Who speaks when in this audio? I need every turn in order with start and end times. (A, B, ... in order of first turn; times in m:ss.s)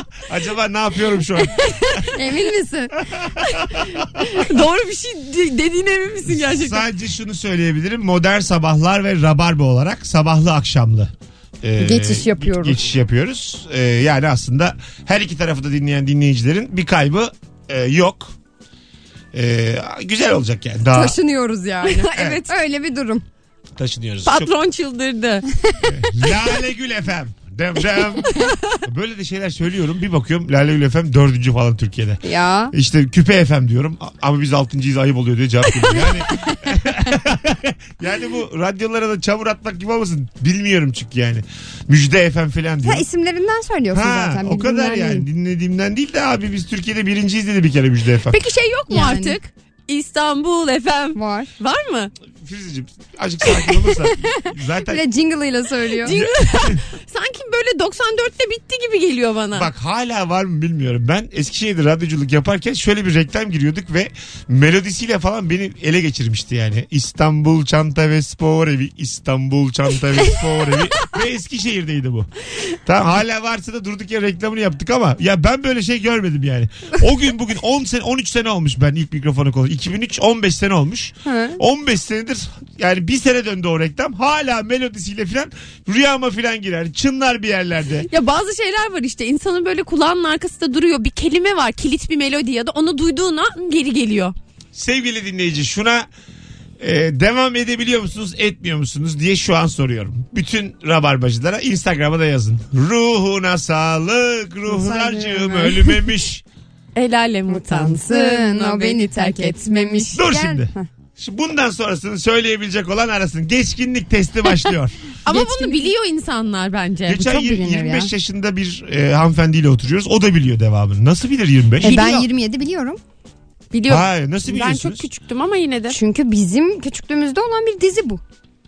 0:00.3-0:02.0 A
0:01.6-0:01.9 B
0:02.1-0:02.9 C
0:03.0-0:04.4 A
0:04.2-0:06.8 B
0:06.2-0:18.3 A
0:11.8-0:12.8 C
0:19.3-0:21.2 A
0:20.9-0:23.2 C
0:21.8-0:22.5 B
0:22.1-0:22.4 A
0:23.8-0:24.5 A
0:24.2-0:25.4 B
0:25.8-0:43.0 A
0:32.2-0:32.7 C
0:42.8-0:45.2 C
0:43.9-0:48.4 A
0:48.3-0:52.1 B
0:48.9-0:49.4 C
0:51.1-0:51.5 C
0:52.4-0:55.0 A
0:54.9-0:56.2 C
0:56.0-0:59.7 B
0:56.1-0:56.8 A
0:59.5-1:12.3 A
1:12.8-1:28.1 A
1:21.2-1:21.6 C
1:28.1-1:34.3 B
1:34.7-1:36.1 A
1:36.8-1:46.4 A
1:44.6-1:46.0 C
1:46.9-1:50.2 B
1:47.5-1:50.9 C
1:50.1-1:55.0 A
1:55.2-1:57.5 B
1:55.2-1:55.9 C
1:57.1-2:02.1 A
1:57.2-1:58.1 C
2:01.8-2:02.2 B
2:01.8-2:03.0 C
2:03.7-2:06.0 B
2:03.9-2:05.0 A
2:05.9-2:08.2 C